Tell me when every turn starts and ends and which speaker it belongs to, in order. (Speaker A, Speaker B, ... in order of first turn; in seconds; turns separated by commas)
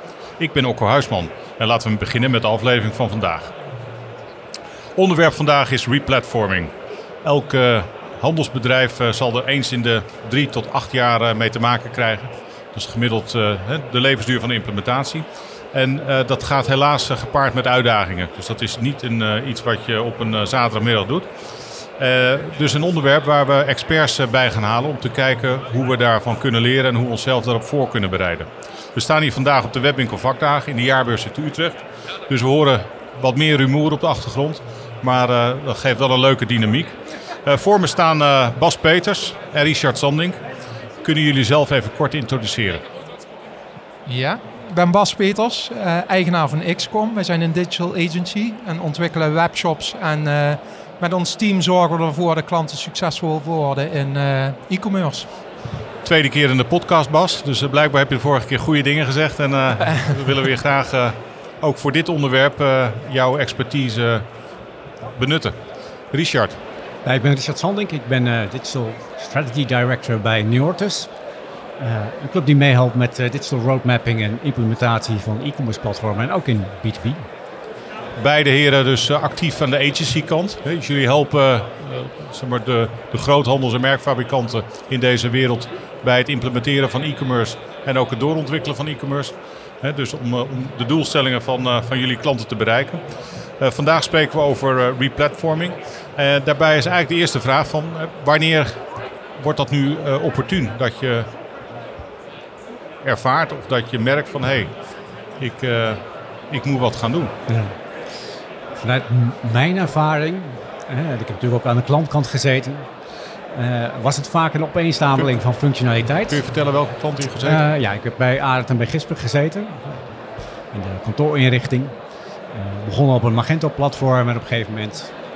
Speaker A: 0.4-3.5, Speaker A: 5.0-6.7, Speaker A: 7.2-21.3, Speaker A: 22.0-40.4, Speaker A: 41.0-42.8, Speaker B: 44.1-55.3, Speaker A: 56.0-64.2, Speaker A: 65.2-65.5, Speaker A: 66.1-66.6, Speaker C: 67.0-71.1, Speaker C: 71.8-77.3, Speaker A: 78.2-93.0, Speaker A: 93.6-98.8, Speaker A: 99.4-101.3, Speaker A: 103.0-104.7, Speaker A: 105.4-107.3, Speaker C: 107.5-107.8, Speaker C: 108.8-112.9, Speaker C: 113.5-116.4, Speaker A: 116.3-117.6, Speaker C: 117.4-120.1, Speaker C: 120.7-122.0, Speaker C: 122.5-125.1